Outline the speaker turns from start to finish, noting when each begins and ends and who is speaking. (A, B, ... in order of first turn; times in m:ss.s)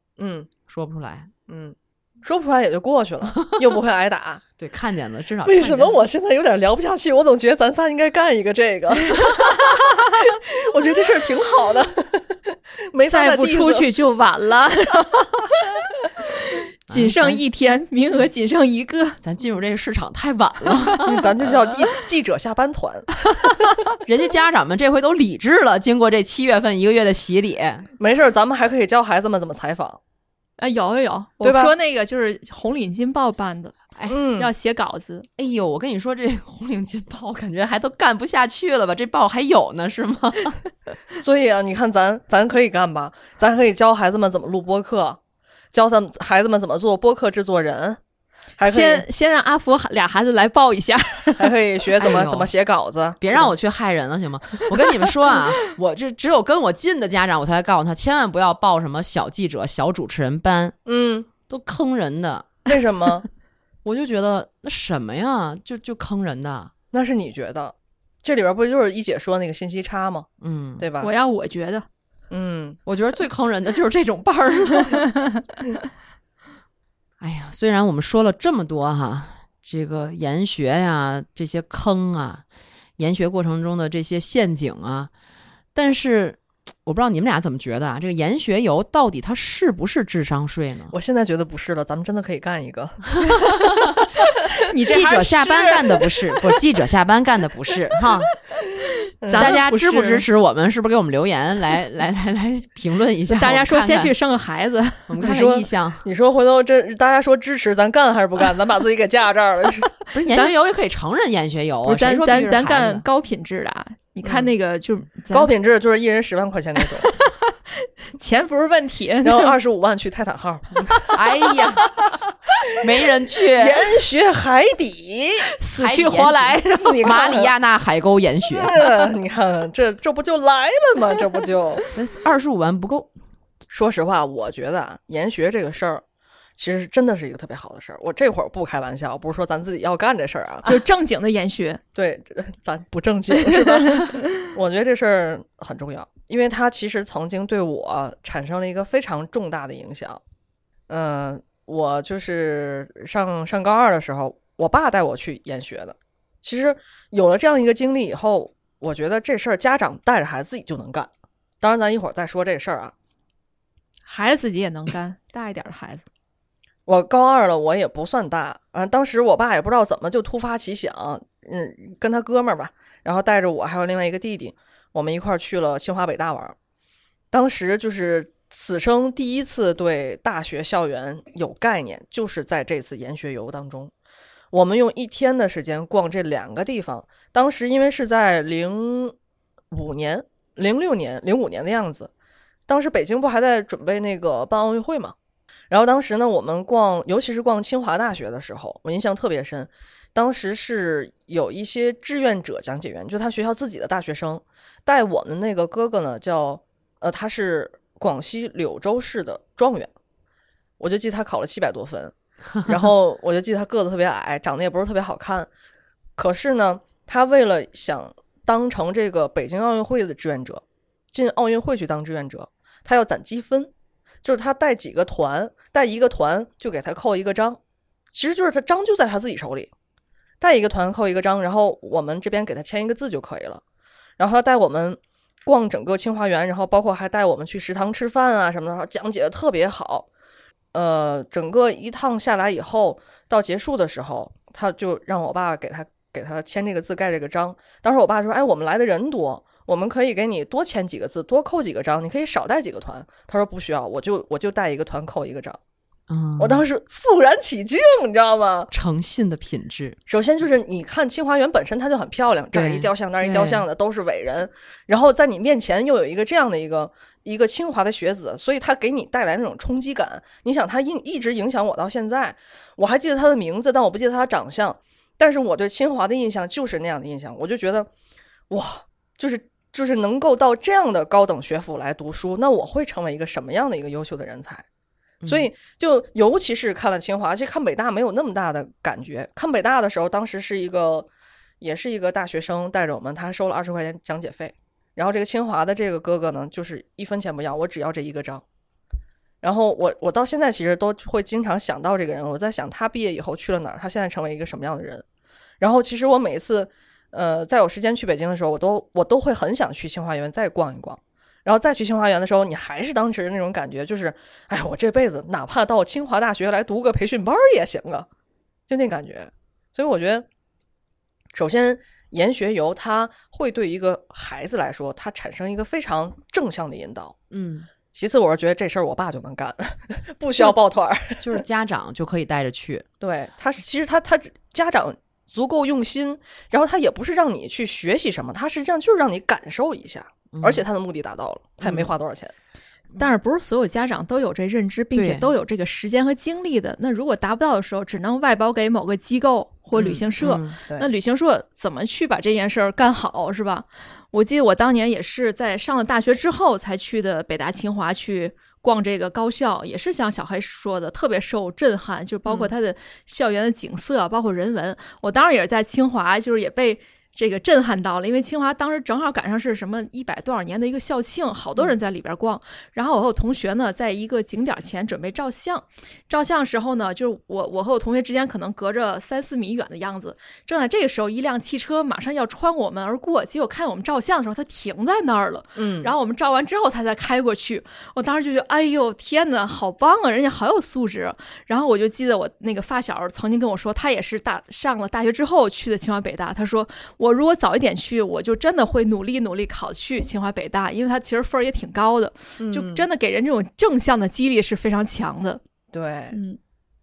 0:00.2-0:00.5 A
0:00.7-0:01.3 B
0:01.5-0:04.4 A
0:04.6-0:06.0 B
0:05.4-0:13.9 A
0:13.1-0:15.8 C
0:16.4-0:19.2 C
0:16.9-0:17.4 B
0:19.2-0:21.7 B
0:21.0-0:23.5 A
0:24.0-0:27.9 B
0:28.0-0:30.0 A
0:30.6-0:33.8 C
0:31.4-0:31.7 A
0:34.1-0:34.5 A
0:34.4-0:35.3 C
0:35.4-0:40.6 B
0:41.2-0:45.2 A
0:45.7-0:48.0 A
0:48.6-0:49.0 A
0:48.6-0:51.5 C
0:51.4-0:53.5 A
0:52.0-0:52.5 B
0:53.2-1:00.8 B
1:00.9-1:01.3 A
1:01.5-1:02.6 B
1:02.7-1:03.3 A
1:03.8-1:06.7 B
1:06.9-1:11.1 A
1:10.4-1:10.9 B
1:11.0-1:11.9 C
1:12.3-1:12.8 A
1:12.9-1:15.0 B
1:17.2-1:22.4 B
1:23.0-1:25.1 B
1:25.8-1:30.9 B
1:30.9-1:33.5 A
1:34.7-1:36.4 C
1:34.8-1:38.3 B
1:39.2-1:39.6 A
1:39.2-1:40.2 C
1:39.3-1:44.1 B
1:43.3-1:45.2 C
1:45.1-1:46.1 B
1:45.2-1:50.0 A
1:50.1-1:53.0 B
1:51.8-1:55.5 C
1:55.3-1:57.1 A
1:56.8-1:59.6 C
1:59.2-2:01.2 A
2:01.1-2:01.9 B
2:02.8-2:03.9 B
2:03.6-2:05.5 A
2:05.6-2:07.2 C
2:05.8-2:08.8 B
2:06.8-2:07.5 A
2:08.6-2:11.8 A
2:12.0-2:13.1 B
2:13.7-2:16.0 A
2:16.6-2:20.8 A
2:20.6-2:21.8 C
2:22.0-2:30.2 A
2:23.5-2:24.5 C
2:30.9-2:41.1 A
2:41.6-2:42.9 A
2:44.1-2:46.0 C
2:46.9-2:56.6 A
2:57.3-3:03.9 A
3:04.5-3:09.2 A
3:09.7-3:12.1 A
3:12.7-3:15.2 A
3:15.7-3:29.9 A
3:30.8-3:35.5 A
3:36.2-3:40.6 A
3:41.1-3:43.7 A
3:44.2-3:47.6 A
3:48.1-3:49.7 A
3:50.4-3:53.6 A
3:54.2-4:00.1 A
4:00.7-4:15.6 A
4:16.1-4:16.7 B
4:16.4-4:18.7 A
4:18.7-4:20.0 B
4:20.1-4:37.9 A
4:22.5-4:23.7 B
4:38.5-4:44.6 A
4:45.2-4:45.5 B
4:45.2-4:51.1 A
4:51.6-4:58.4 A
4:59.4-5:05.0 A
5:05.6-5:18.1 A
5:18.7-5:20.3 A
5:21.3-5:27.2 A
5:27.3-5:27.7 B
5:27.9-5:31.4 A
5:31.2-5:32.9 B
5:33.0-5:42.3 A
5:40.3-5:40.7 B
5:41.6-5:41.9 B
5:43.0-6:45.4 C
5:45.0-5:45.3 B
5:49.8-5:50.6 B
6:25.6-6:25.9 A
6:42.4-6:42.8 A
6:45.7-6:46.2 A
6:46.1-6:46.4 C